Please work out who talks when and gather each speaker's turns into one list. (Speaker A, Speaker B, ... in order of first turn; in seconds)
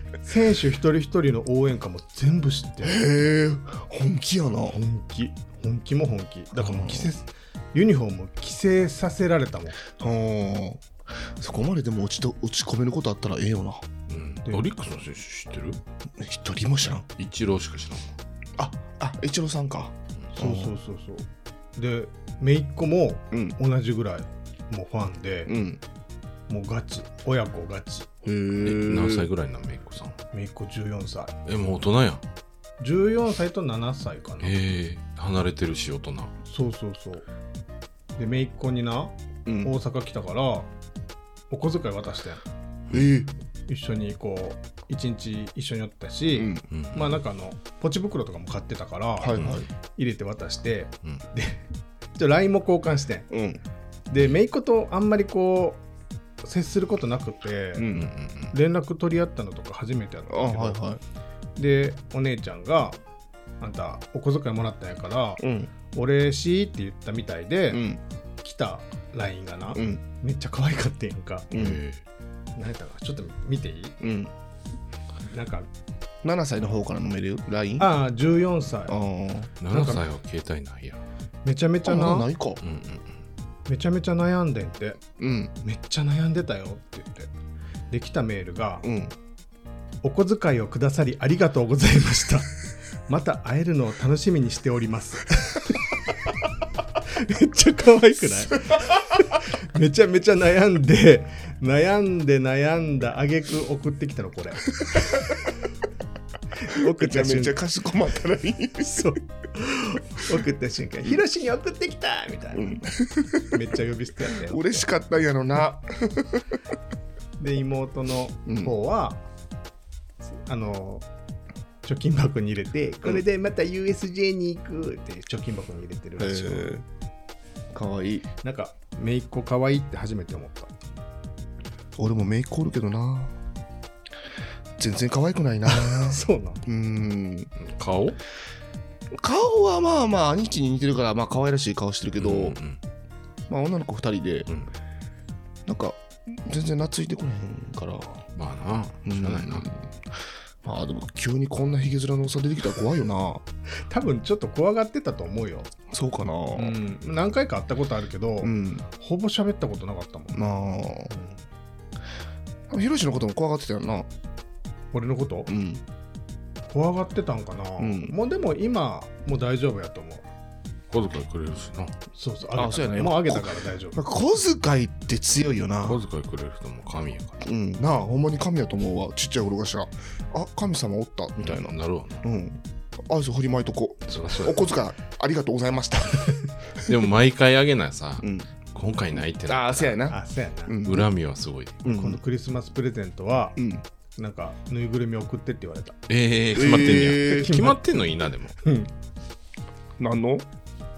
Speaker A: 0.2-3.0, 4.7-9.9, 20.3-25.5, 26.5-28.1, 30.3-31.3, 32.8-34.5, 36.5-37.2, 38.2-40.7, 41.5-42.4, 43.7-51.6, 52.1-53.3, 54.1-55.8, 56.4-57.9, 58.5-60.8, 61.6-63.0, 63.6-67.8, 68.4-71.5, 72.5-74.0, 75.3-75.7, 77.8-79.0, 79.7-80.0, 81.4-82.3, 83.7-85.0, 85.6-87.3, 87.9-88.8, 90.0-92.5, 93.1-95.8, 97.0-105.3, 106.6-107.6, 108.9-112.8, 113.5-114.8, 117.4-119.2, 120.3-121.0, 121.8-126.7, 128.4-130.7, 135.7-136.6, 153.9-155.7, 156.5-160.4, 161.1-161.4, 164.9-165.5, 166.7-170.2, 172.1-174.0, 190.1-190.8, 191.8-193.6, 194.2-196.0, 197.3-197.8, 198.6-198.9
Speaker B: 2.8-4.8, 6.6-7.1, 10.0-13.8, 16.2-17.1, 18.6-20.7, 25.4-25.8, 28.2-29.3, 39.5-39.7, 42.9-43.3, 46.3-46.6, 49.2-49.7, 53.3-53.6, 57.8-58.1, 60.3-61.0, 65.4-65.7, 67.7-68.0, 69.7-70.0, 71.5-71.8, 74.0-74.3, 76.2-77.9, 78.9-79.5, 81.8-82.6, 85.2-85.5, 88.8-89.1, 106.9-109.1, 112.5-113.6, 114.5-116.5, 118.5-118.7, 126.2-126.8, 127.7-128.2, 131.9-133.3, 134.8-137.5, 139.2-142.6, 143.5-144.5, 145.7-148.2, 149.0-149.9, 150.6-153.4, 155.9-156.8, 158.4-158.8, 160.3-161.1, 162.7-164.1, 165.5-165.8, 167.8-168.1, 172.5-176.0, 177.4-186.9, 188.2-188.5, 189.5-191.1, 191.8-192.2, 193.6-193.8, 196.5-197.6, 200.0-200.4
Speaker C: 14.1-15.8, 17.2-18.2, 28.6-30.2, 31.4-32.2, 34.4-36.3, 46.7-47.2, 58.0-58.5, 71.5-72.0, 79.6-81.0, 82.6-83.2, 137.6-138.2, 142.2-142.8, 148.3-149.7, 170.9-171.9, 175.8-177.4, 181.4-182.2, 184.1-184.6, 186.8-190.0, 190.8-191.8, 196.1-198.5